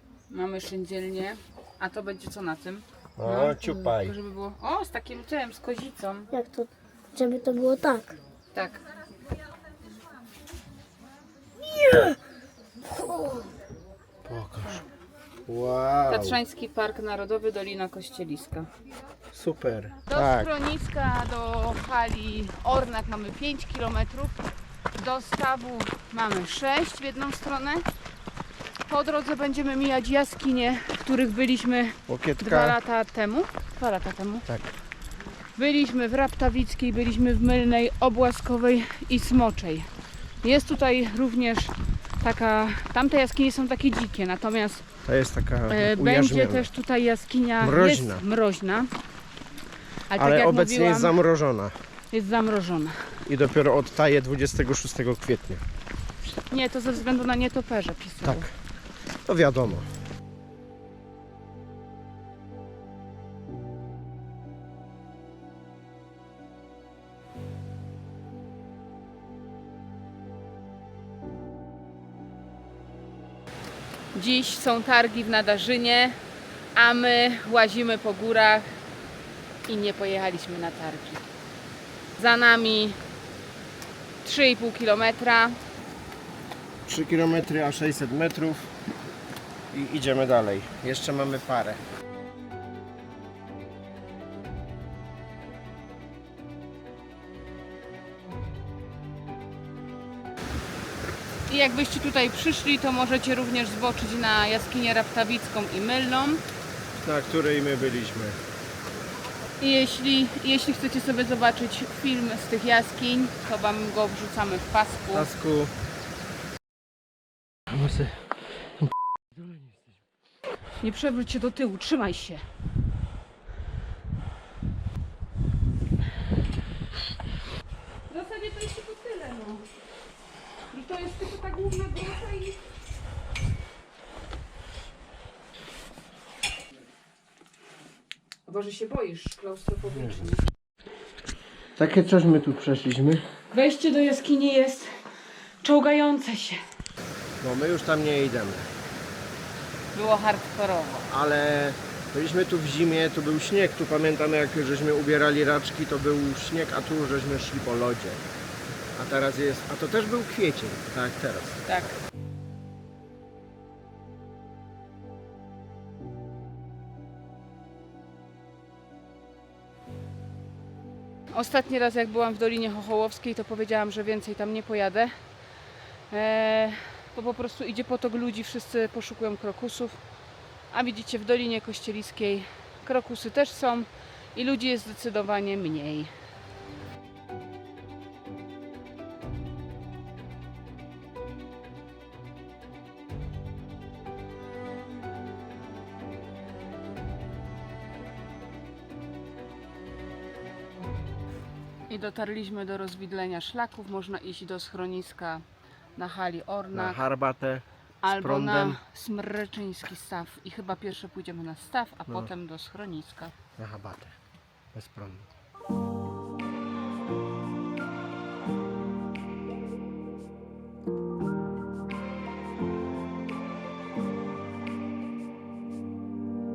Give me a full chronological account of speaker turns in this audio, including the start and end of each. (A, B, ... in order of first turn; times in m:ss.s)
0:00.3-0:06.3 A
0:03.2-0:04.1 B
0:06.3-0:08.2 C
0:08.5-0:08.8 A
0:11.6-0:12.2 B
0:12.9-0:13.5 C
0:14.2-0:14.8 B
0:15.4-0:16.4 B
0:16.1-0:18.7 A
0:19.3-0:20.5 B
0:20.1-0:24.4 A
0:25.0-0:27.9 A
0:28.9-0:34.4 A
0:32.1-0:32.8 B
0:34.5-0:34.7 B
0:35.6-0:39.9 A
0:40.4-0:44.9 A
0:45.0-0:46.7 B
0:45.7-0:48.9 A
0:47.6-0:48.2 B
0:50.1-0:51.2 A
0:50.1-0:51.7 B
0:52.1-0:53.1 A
0:53.2-0:55.6 B
0:56.4-0:58.5 A
0:58.2-0:58.5 B
0:59.2-0:59.9 B
1:14.1-1:16.2 A
1:16.7-1:18.8 A
1:19.7-1:21.2 A
1:22.2-1:23.0 A
1:24.2-1:25.6 A
1:26.8-1:28.7 B
1:29.7-1:31.8 B
1:41.5-1:46.4 A
1:47.0-1:48.4 B
1:49.6-1:55.3 A
1:55.1-1:55.7 B
1:57.7-1:59.8 B
2:00.8-2:02.4 A
2:08.1-2:09.7 A
2:10.7-2:12.6 A
2:18.5-2:20.4 A
2:21.8-2:23.2 B
2:23.5-2:25.0 A
2:25.6-2:26.6 A
2:27.4-2:28.7 B
2:29.9-2:31.0 A
2:31.1-2:38.2 B
2:39.0-2:41.6 B
2:41.7-2:42.0 A
2:51.3-2:55.1 A
2:56.1-3:00.0 A
3:00.7-3:06.1 A
3:21.9-3:25.4 A
3:26.0-3:27.0 A
3:26.7-3:28.8 B
3:28.0-3:33.3 A
3:33.6-3:34.1 B
3:34.7-3:35.3 B